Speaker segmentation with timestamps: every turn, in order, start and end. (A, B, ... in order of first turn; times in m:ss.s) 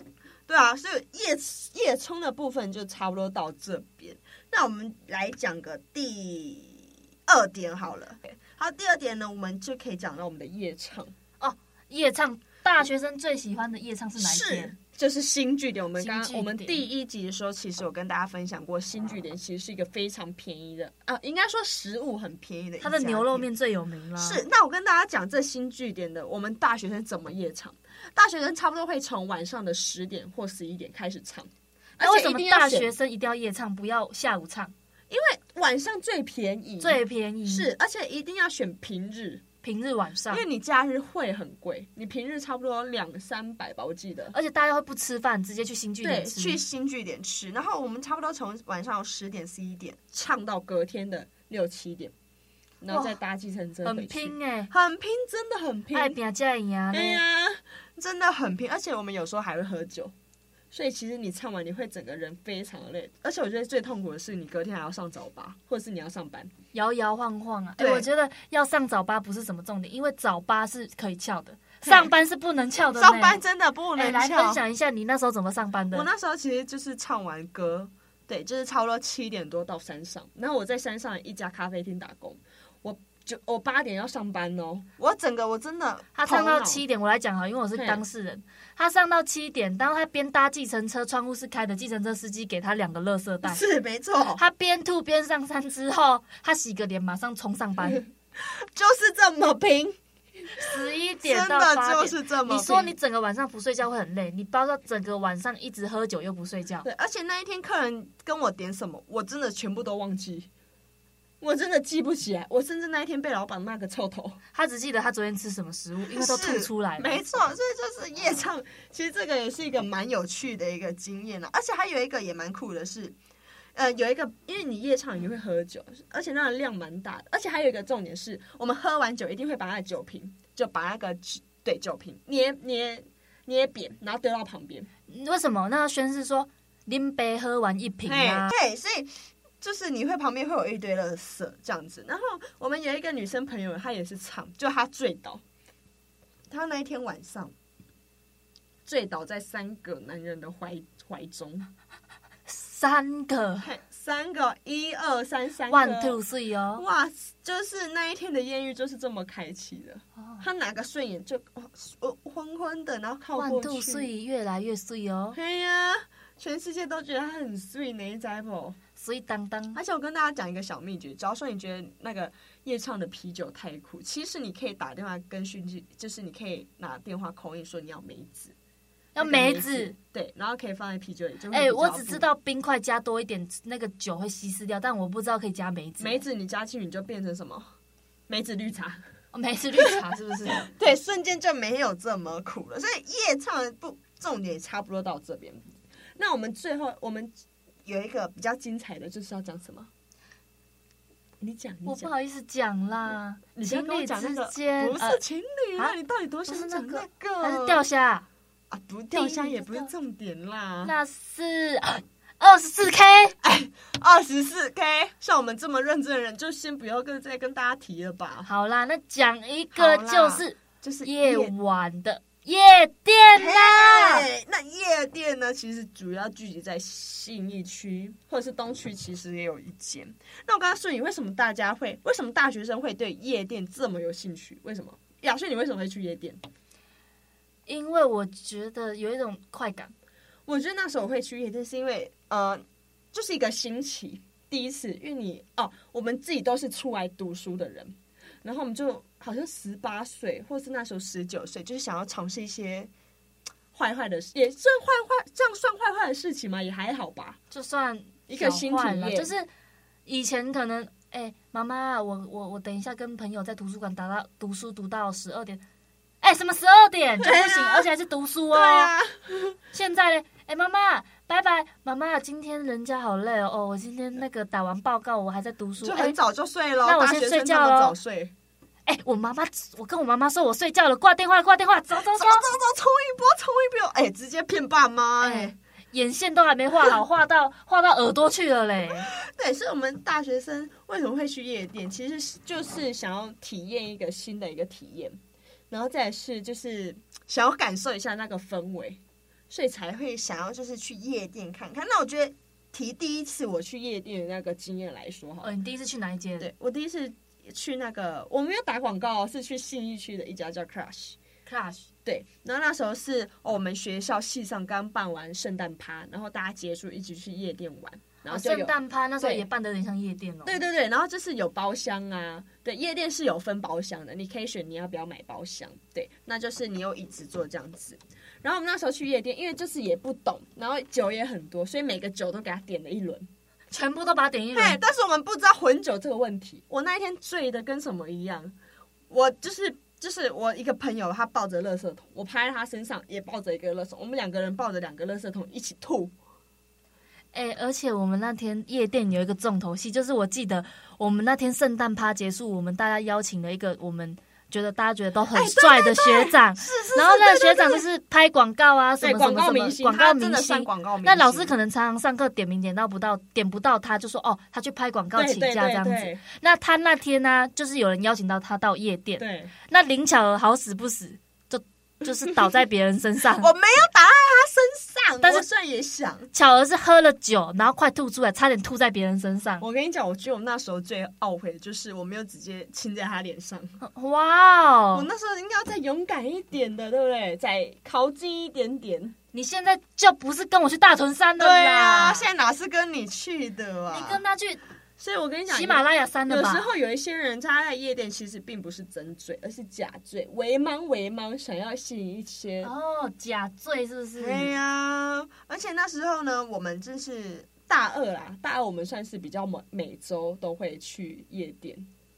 0:00.5-0:11.1 A
0:11.4-0:14.7 B
0:14.2-0:23.5 A
0:16.0-0:16.8 B
0:22.8-0:24.4 B
0:24.2-0:32.9 A
0:32.0-0:34.7 B
0:35.1-0:39.4 A
0:36.8-0:37.7 B
0:39.6-0:40.4 B
0:40.3-0:44.4 A
0:44.3-0:46.6 B
0:46.0-0:52.1 A
0:52.8-0:56.2 A
0:52.9-0:53.2 B
0:53.8-0:54.7 B
0:55.9-0:57.2 B
0:56.9-1:00.1 A
1:00.7-1:06.5 A
1:06.7-1:13.4 B
1:07.8-1:08.1 A
1:11.8-1:12.1 A
1:13.0-1:14.6 A
1:14.0-1:16.1 B
1:15.9-1:26.8 A
1:26.2-1:33.6 B
1:27.8-1:28.0 A
1:33.4-1:34.4 A
1:34.4-1:38.0 B
1:38.4-1:40.0 A
1:40.6-1:46.9 B
1:41.2-1:43.0 A
1:46.8-1:50.5 A
1:51.4-1:54.4 A
1:54.5-1:57.2 B
1:56.1-2:03.2 A
2:03.8-2:14.9 A
2:15.1-2:18.5 B
2:18.1-2:25.4 A
2:26.5-2:27.5 A
2:28.9-2:31.7 A
2:32.5-2:33.7 B
2:33.6-2:36.2 A
2:35.7-2:36.8 B
2:36.8-2:44.1 A
2:43.4-2:45.4 B
2:45.3-2:48.8 A
2:49.0-2:49.8 B
2:49.8-2:58.5 A
2:59.2-3:00.0 B
2:59.2-3:02.3 A
3:01.5-3:06.2 B
3:06.0-3:07.7 A
3:08.3-3:09.0 A
3:09.3-3:10.7 B
3:10.6-3:15.6 A
3:16.2-3:17.3 A
3:17.8-3:19.9 A
3:21.4-3:22.1 A
3:21.8-3:25.2 B
3:23.6-3:27.8 A
3:26.5-3:28.3 B
3:28.7-3:30.9 A
3:29.1-3:29.9 B
3:30.8-3:33.4 B
3:33.4-3:38.5 A
3:38.5-3:44.3 B
3:39.7-3:41.5 A
3:43.4-3:56.4 A
3:57.7-3:59.9 B
4:00.5-4:12.9 A
4:13.7-4:17.4 A
4:17.5-4:19.5 B
4:18.3-4:19.3 A
4:20.1-4:25.6 B
4:26.2-4:28.9 B
4:27.2-4:27.9 A
4:28.5-4:29.6 A
4:29.7-4:36.2 B
4:35.8-4:38.3 A
4:36.8-4:38.0 B
4:38.9-4:42.5 B
4:42.1-4:45.6 A
4:45.2-4:49.1 B
4:49.1-4:55.2 A
4:55.7-5:05.5 A
5:05.4-5:06.5 B
5:06.4-5:11.2 A
5:11.5-5:11.9 B
5:12.0-5:19.5 A
5:18.3-5:20.6 B
5:20.4-5:33.3 A
5:33.7-5:34.8 B
5:34.6-5:38.6 A
5:39.1-5:46.1 A
5:47.3-6:13.5 B
5:55.3-5:57.8 A
5:59.0-6:01.5 A
6:05.2-6:06.2 A
6:09.2-6:09.5 A
6:13.4-6:16.3 A
6:16.3-6:19.6 B
6:19.6-6:23.8 A
6:23.8-6:25.1 B
6:24.9-6:29.2 A
6:29.3-6:32.3 B
6:31.4-6:34.2 A
6:33.9-6:34.6 B
6:35.0-6:42.7 A
6:35.5-6:36.7 B
6:42.6-6:44.6 B
6:44.2-6:51.9 A